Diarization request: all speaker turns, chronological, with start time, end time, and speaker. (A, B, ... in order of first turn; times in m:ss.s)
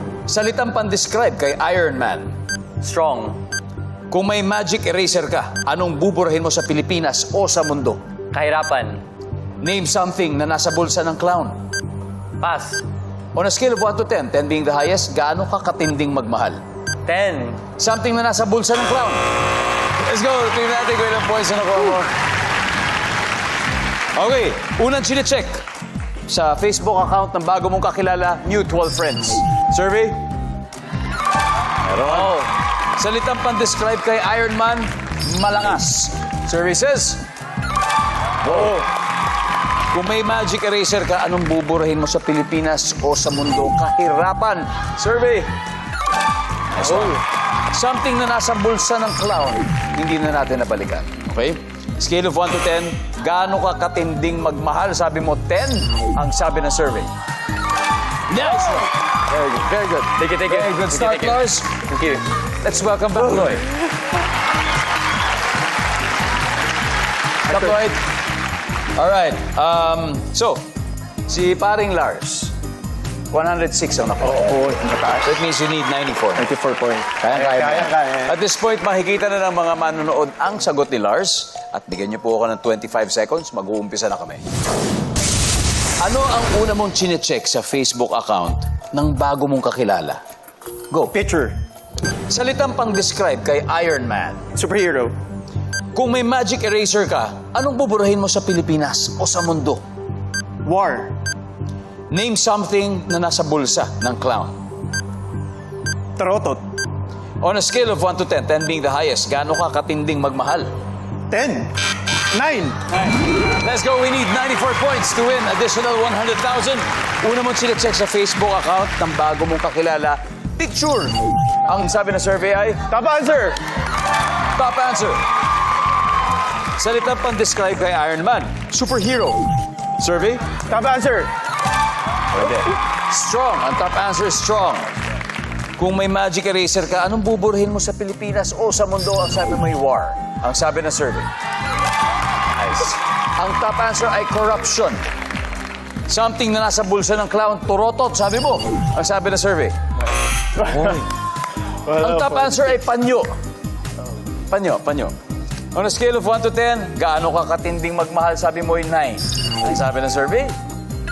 0:00.3-0:02.3 A
0:02.8-0:03.4 B
0:04.1-0:08.0 A
0:08.3-0:09.0 B
0:09.6-0:11.6 A
0:12.4-0:12.8 B
0:13.3-0:16.6 A
0:17.0-0:17.6 B
0:17.8-0:19.2 A
0:20.0-0:22.1 A
0:24.1-0:25.6 A
0:26.3-0:30.2 A
0:31.8-0:37.2 A
0:32.0-0:32.5 B
0:38.4-0:38.9 A
0:39.9-0:45.5 A
0:46.7-0:57.1 A
0:58.3-1:01.8 A
1:00.2-1:02.2 B
1:02.6-1:03.7 A
1:07.5-1:08.0 A
1:09.0-1:10.6 A
1:11.3-1:12.5 A
1:13.3-1:14.6 A
1:14.2-1:15.3 C
1:15.2-1:16.5 A
1:16.4-1:18.3 C
1:17.2-1:24.4 A
1:26.0-1:30.2 A
1:31.1-1:31.6 C
1:32.3-1:34.4 A
1:34.5-1:35.1 C
1:35.9-1:39.8 A
1:40.6-1:41.1 C
1:42.1-1:44.6 A
1:46.2-1:46.6 C
1:47.4-1:50.7 A
1:51.3-1:53.0 C
1:53.4-2:02.9 A
2:02.9-2:03.6 C
2:04.6-2:05.2 A
2:06.8-2:10.5 A
2:10.7-2:11.3 C
2:12.3-2:14.9 A
2:15.8-2:21.3 A
2:22.6-2:25.0 A
2:26.1-2:29.8 A
2:30.6-2:31.0 A
2:31.9-2:33.3 A
2:34.5-2:35.1 A
2:35.7-2:40.6 A